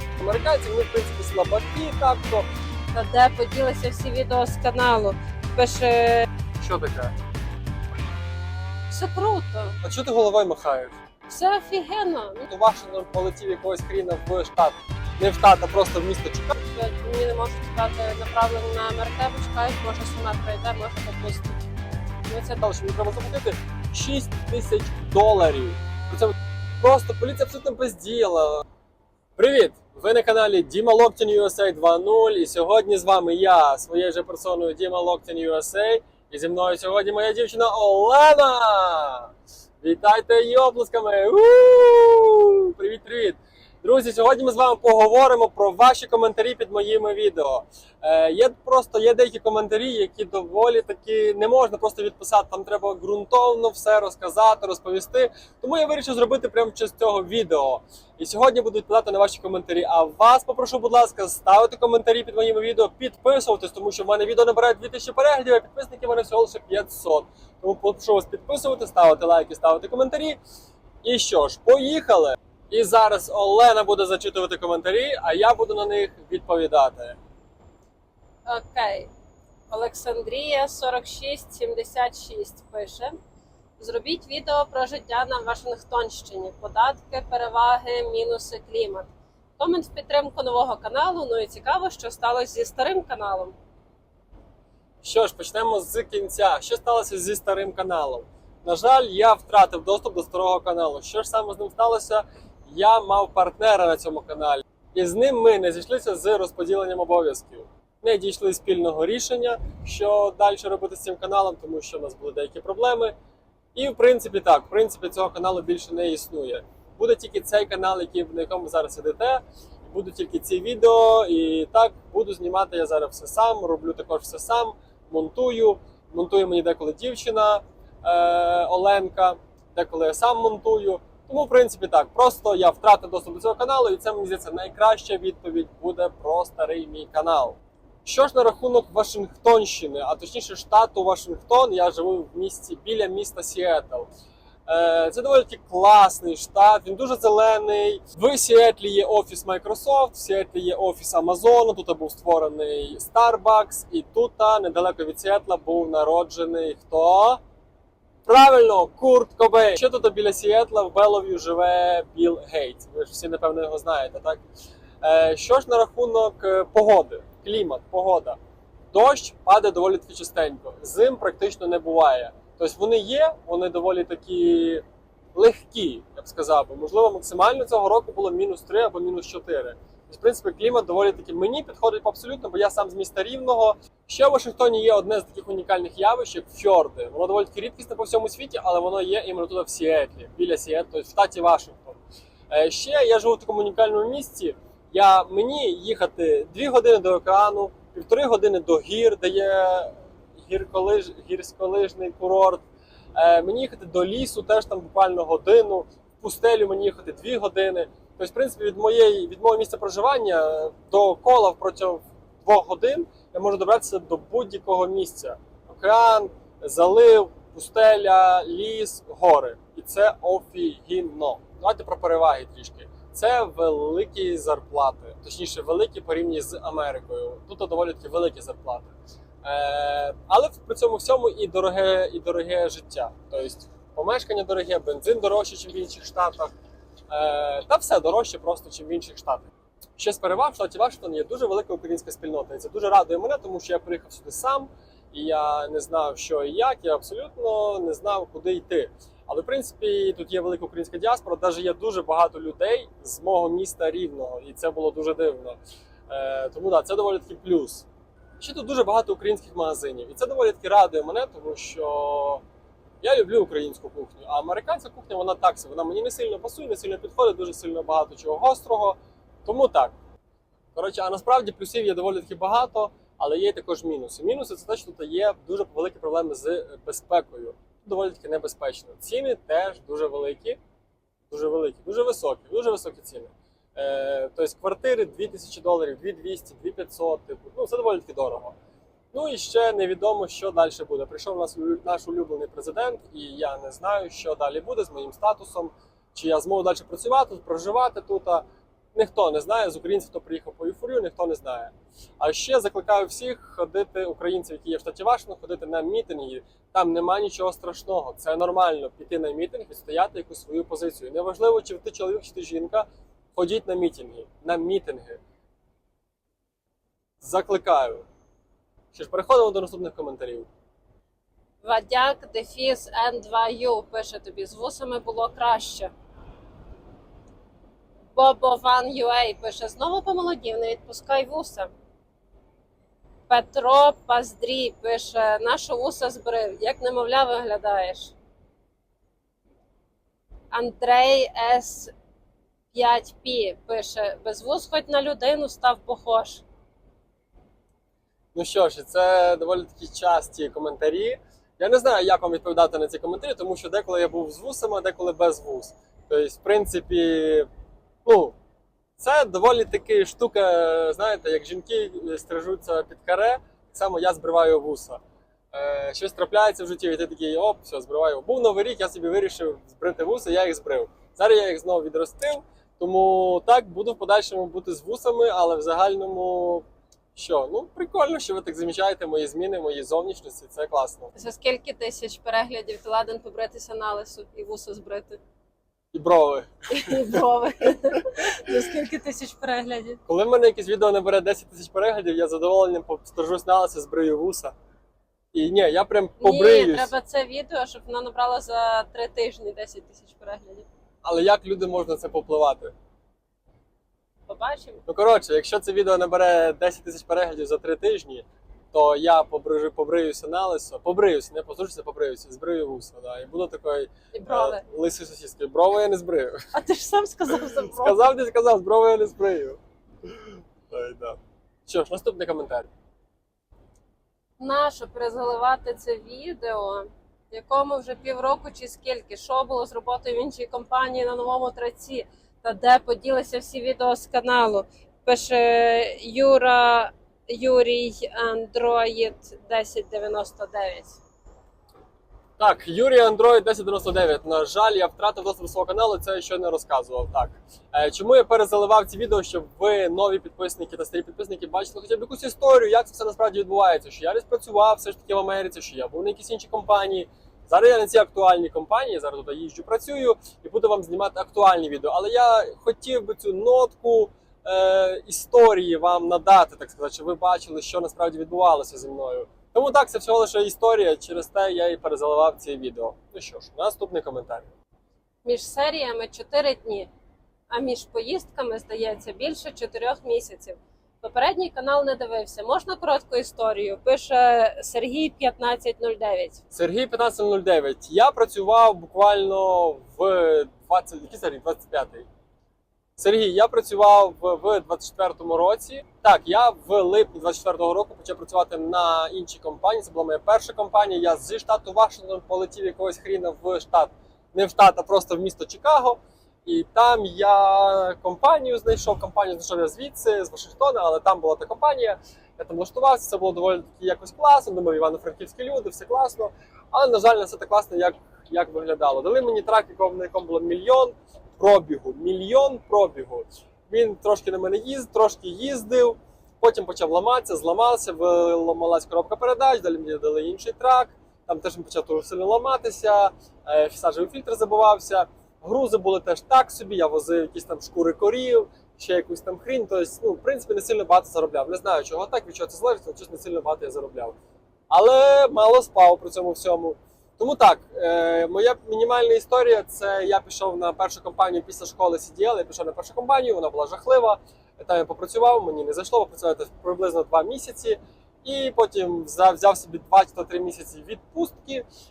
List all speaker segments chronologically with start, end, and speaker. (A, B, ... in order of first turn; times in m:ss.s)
0:00.2-0:02.5 A
0:02.9-0:06.3 B
0:06.6-0:07.2 A
0:08.9-0:09.8 B
0:09.8-0:11.0 A
0:11.3-0:12.5 B
0:12.5-0:16.6 A
0:16.7-0:21.6 B
0:22.2-0:22.6 B
0:22.6-0:28.7 A
0:29.4-1:10.4 A
1:11.0-1:17.2 A
1:18.5-1:19.1 B
1:19.7-1:23.2 B
1:23.8-1:33.6 B
1:35.0-1:53.1 A
1:53.8-2:24.1 A
2:24.7-2:37.4 A
2:38.3-2:44.4 A
2:45.0-2:48.4 A
2:48.9-2:54.8 A
2:55.4-3:12.0 A
3:12.5-3:22.6 A
3:23.2-3:56.5 A
3:57.1-4:15.6 A
4:16.1-4:17.9 A
4:18.4-4:22.4 A
4:23.0-4:30.0 A
4:30.8-4:40.6 A
4:41.3-4:48.6 A
4:49.1-4:58.4 A
4:59.0-5:15.2 A
5:17.2-5:18.0 A
5:18.9-5:20.5 A
5:21.6-5:25.9 B
5:28.1-5:31.7 B
5:33.3-5:38.1 B
5:40.5-5:41.9 B
5:42.7-5:46.4 B
5:48.3-5:57.5 A
5:58.0-5:58.4 A
5:59.0-6:05.0 A
6:05.5-6:21.1 A
6:21.1-6:25.2 B
6:25.9-6:27.1 A
6:26.7-6:30.0 B
6:30.1-6:34.5 A
6:35.3-6:36.9 A
6:36.2-6:40.7 B
6:41.0-6:42.7 A
6:44.3-6:44.8 B
6:44.9-6:56.5 A
6:54.1-6:54.6 B
6:56.5-6:58.0 B
6:57.6-6:59.6 A
7:00.7-7:02.7 A
7:04.4-7:21.0 B
7:22.4-7:54.5 A
7:55.2-7:56.9 B
7:57.5-8:06.4 B
8:06.5-8:12.1 A
8:13.0-9:04.2 A
9:04.7-9:21.6 A